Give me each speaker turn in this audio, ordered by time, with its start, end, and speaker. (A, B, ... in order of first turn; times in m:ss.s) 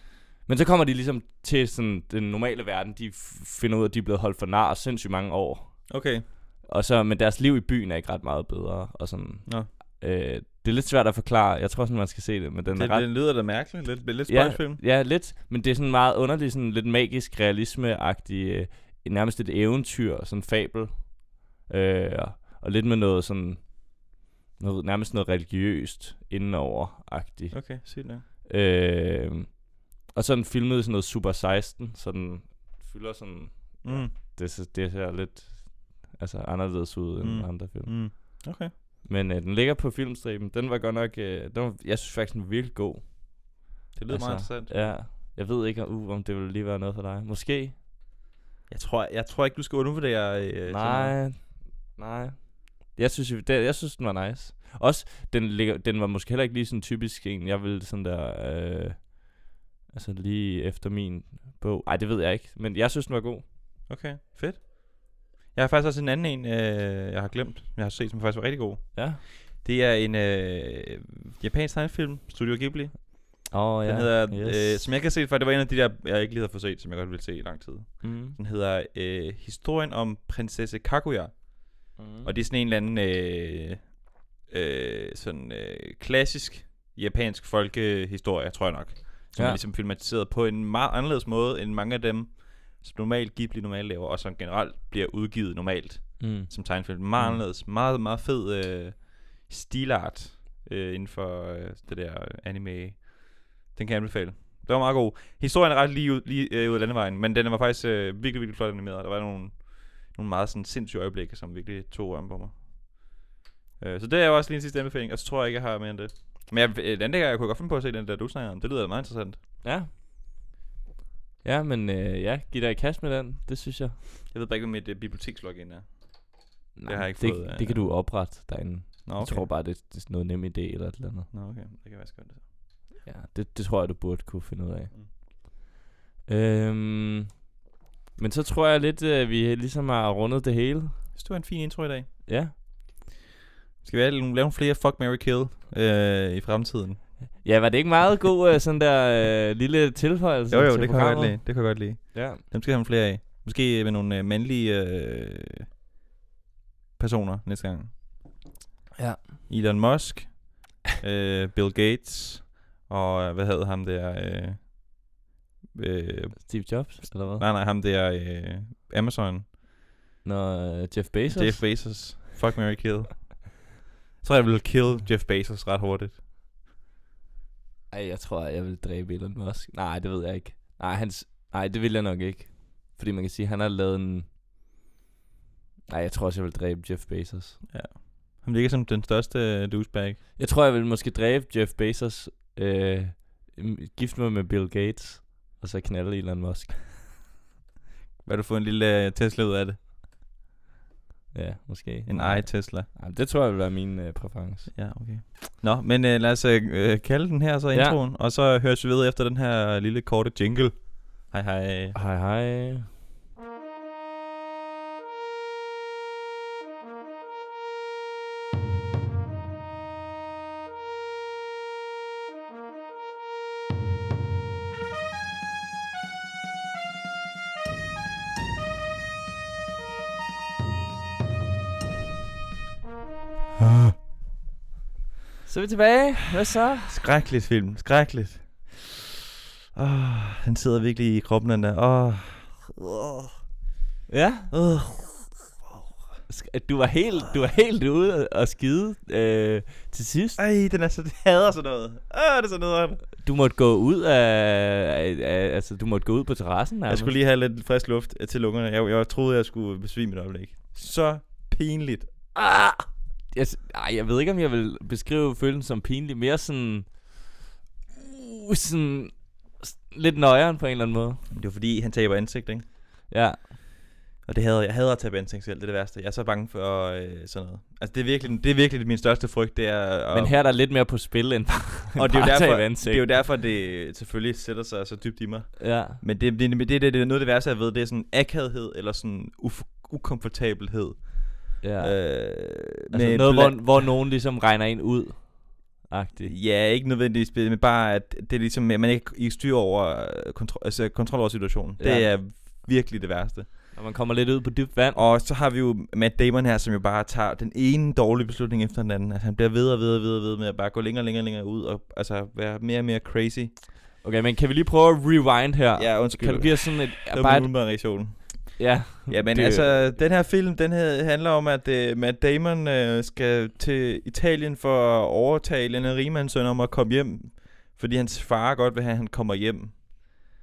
0:00.4-0:05.9 A
0:05.9-0:06.2 B
0:06.6-0:13.0 A
0:12.7-0:14.8 B
0:14.3-0:38.4 A
0:27.5-0:28.2 B
0:33.8-0:34.1 B
0:37.2-0:38.7 B
0:39.0-0:47.8 A
0:43.9-0:44.8 B
0:48.7-0:51.2 B
0:50.7-1:03.4 A
1:03.9-1:53.0 B
1:08.9-1:09.2 A
1:13.5-1:14.9 A
1:18.0-1:18.4 A
1:22.0-1:22.3 A
1:29.3-1:29.6 A
1:36.2-1:36.5 A
1:37.2-1:37.4 A
1:53.8-1:59.4 B
1:59.6-1:59.9 A
2:01.4-2:04.0 A
2:04.3-2:08.0 B
2:06.8-2:11.3 A
2:09.0-2:09.5 B
2:11.3-2:12.5 B
2:13.0-2:15.5 A
2:16.3-2:17.4 A
2:18.2-2:21.0 A
2:21.1-2:22.1 B
2:22.2-2:22.5 A
2:23.8-2:27.1 B
2:27.4-2:32.4 A
2:30.5-2:35.7 B
2:37.0-2:37.9 B
2:39.0-2:39.2 A
2:39.5-2:44.8 B
2:45.7-2:49.5 B
2:46.4-2:47.4 A
2:50.2-2:52.0 A
2:51.3-2:56.2 B
2:57.9-3:04.3 A
3:05.9-3:07.6 A
3:07.7-3:10.2 B
3:10.4-3:16.8 A
3:18.2-3:19.8 B
3:21.3-3:24.8 A
3:22.1-3:22.9 B
3:24.7-3:32.0 B
3:27.7-3:28.0 A
3:31.9-3:32.9 A
3:53.6-3:53.9 B
3:55.4-3:57.0 A
3:56.8-3:59.1 B
3:59.7-4:03.4 B
4:04.1-4:04.5 A
4:04.5-4:05.8 B
4:06.3-4:10.4 A
4:10.4-4:13.1 B
4:13.2-4:17.1 A
4:16.9-4:22.3 B
4:22.3-4:27.2 A
4:28.0-4:31.2 A
4:31.3-4:32.6 B
4:33.1-4:33.5 A
4:34.2-4:40.4 B
4:40.1-4:43.0 A
4:41.9-4:53.9 B
4:45.6-4:46.0 A
4:51.6-4:56.3 A
4:56.2-5:03.5 B
5:01.8-5:02.1 A
5:03.7-5:05.0 A
5:04.9-5:13.6 B
5:14.0-5:17.9 A
5:15.8-5:30.2 B
5:18.6-5:19.8 A